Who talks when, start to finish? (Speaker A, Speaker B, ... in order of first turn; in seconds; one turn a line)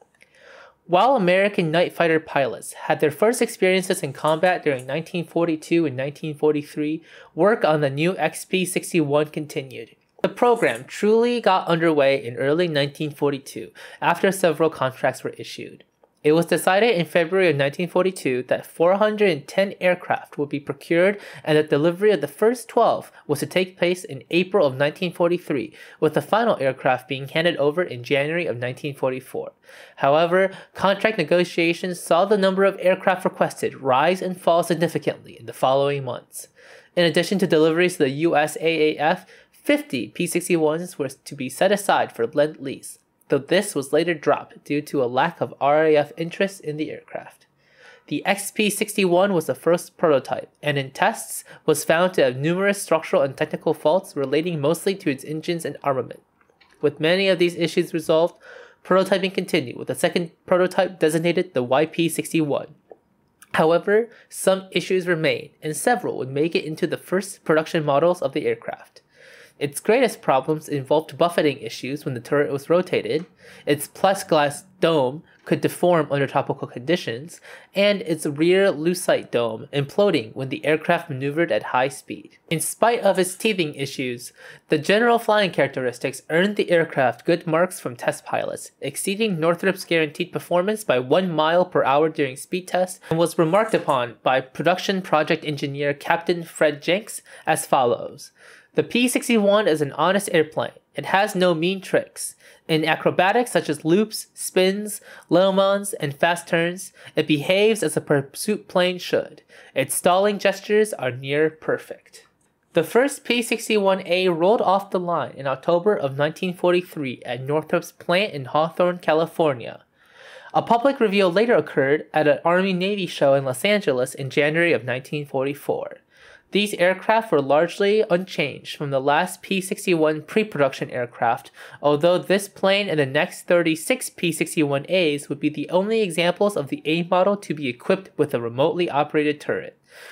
Speaker A: 0.9-47.5
Speaker A: 48.1-56.2
Speaker A: 56.8-62.7
Speaker A: 63.5-69.0
Speaker A: 69.6-119.8
Speaker A: 120.5-139.8